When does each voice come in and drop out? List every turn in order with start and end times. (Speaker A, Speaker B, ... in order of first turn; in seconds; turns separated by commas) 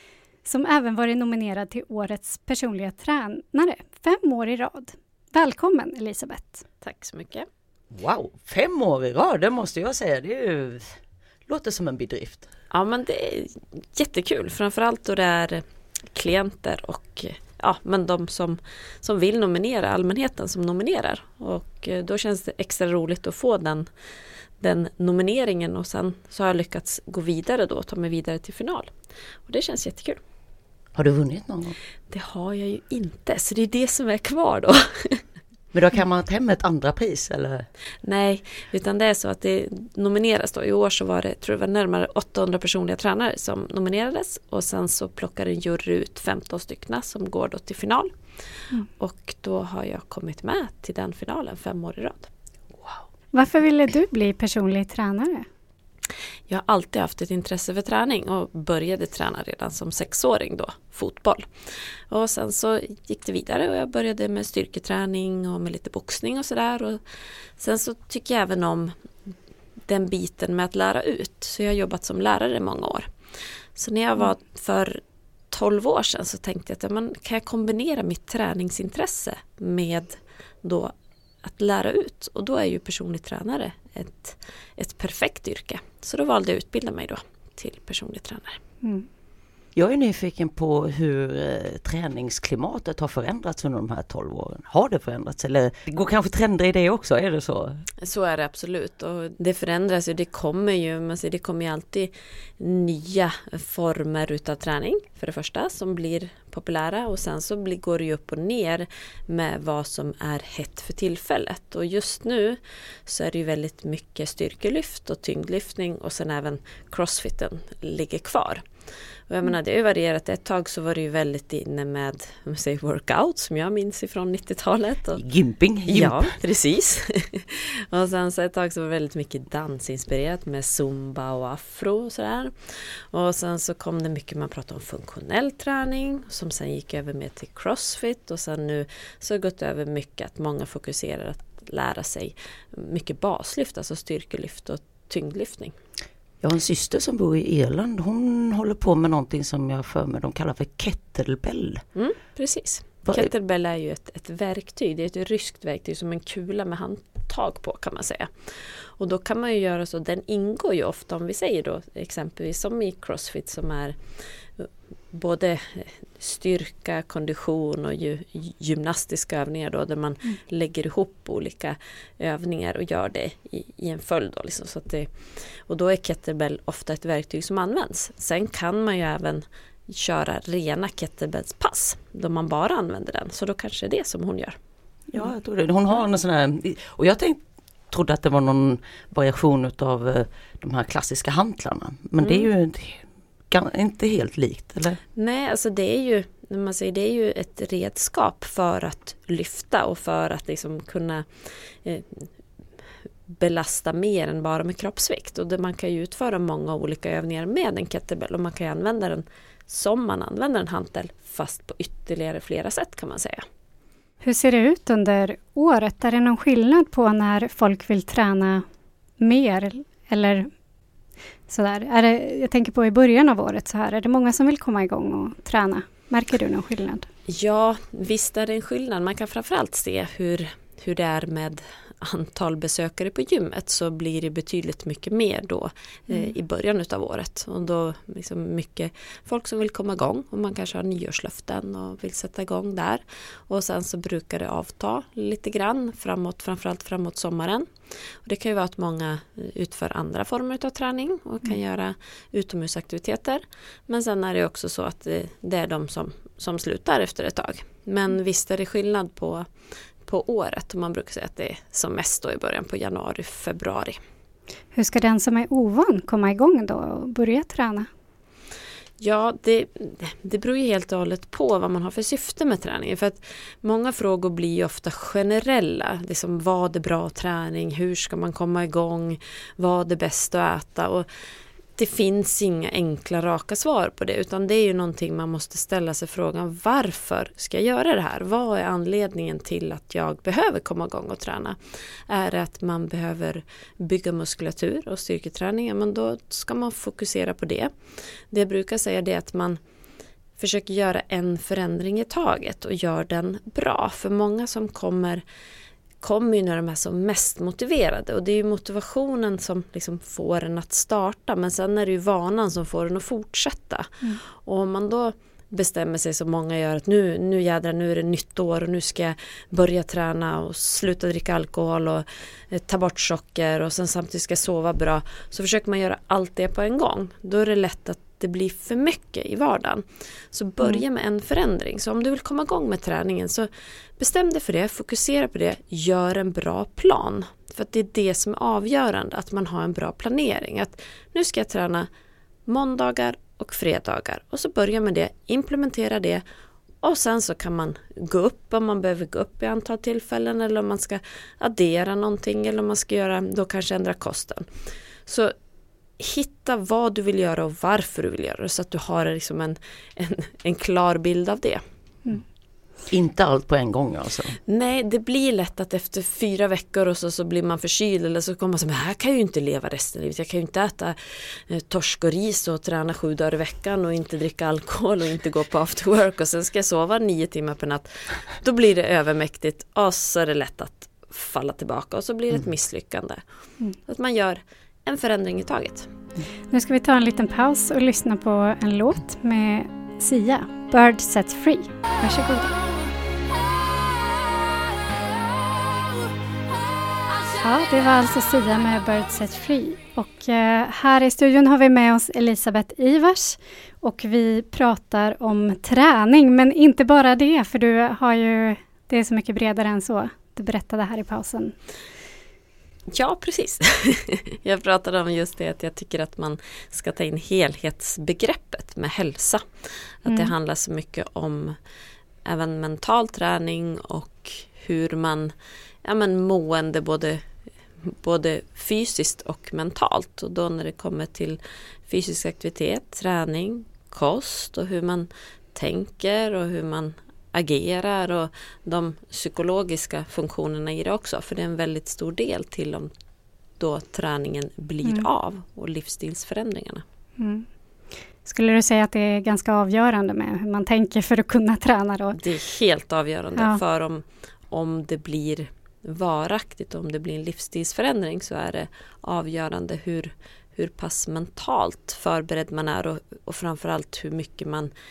Speaker A: 0.5-6.6, Speaker B: 6.8-7.5, Speaker C: 7.9-10.9, Speaker C: 11.5-12.5, Speaker B: 12.7-15.6, Speaker B: 16.1-23.9, Speaker B: 24.6-28.9, Speaker B: 29.5-30.2, Speaker C: 30.9-31.8, Speaker B: 32.1-35.2, Speaker C: 35.7-37.7, Speaker B: 38.0-48.1, Speaker B: 49.0-52.3, Speaker A: 53.3-55.5, Speaker B: 56.5-61.5, Speaker B: 62.1-67.0, Speaker B: 67.6-68.9, Speaker B: 69.9-73.1, Speaker B: 73.8-75.0, Speaker B: 75.5-80.9, Speaker B: 81.4-88.6, Speaker C: 89.8-97.8, Speaker B: 98.0-118.6, Speaker B: 119.3-125.2, Speaker C: 125.1-126.3, Speaker B: 125.9-145.8, Speaker C: 146.4-151.8, Speaker B: 151.9-164.0, Speaker B: 164.6-175.1, Speaker B: 175.7-184.6, Speaker C: 185.1-195.0, Speaker B: 192.2-192.5, Speaker B: 195.2-201.3, Speaker B: 201.8-202.3, Speaker B: 203.3-213.4, Speaker A: 214.2-218.6, Speaker A: 219.2-220.5, Speaker A: 221.5-227.1, Speaker B: 227.3-247.7, Speaker B: 248.2-259.5, Speaker B: 260.1-264.0, Speaker A: 264.7-267.9, Speaker B: 269.0-281.1, Speaker B: 281.8-291.6, Speaker B: 292.1-297.7, Speaker B: 298.3-299.6, Speaker B: 300.4-305.2, Speaker B: 306.0-341.9, Speaker B: 342.5-346.2, Speaker B: 346.8-354.5, Speaker B: 355.1-355.3, Speaker B: 356.0-361.6, Speaker C: 362.9-364.4, Speaker B: 364.5-383.2, Speaker B: 383.9-385.9, Speaker A: 386.5-392.6, Speaker A: 397.4-411.6, Speaker B: 412.9-419.4, Speaker B: 420.0-421.6, Speaker A: 420.1-420.3, Speaker B: 422.3-427.2, Speaker B: 427.8-442.9, Speaker B: 443.6-446.8, Speaker A: 447.2-447.5, Speaker A: 448.2-452.2, Speaker B: 452.1-464.7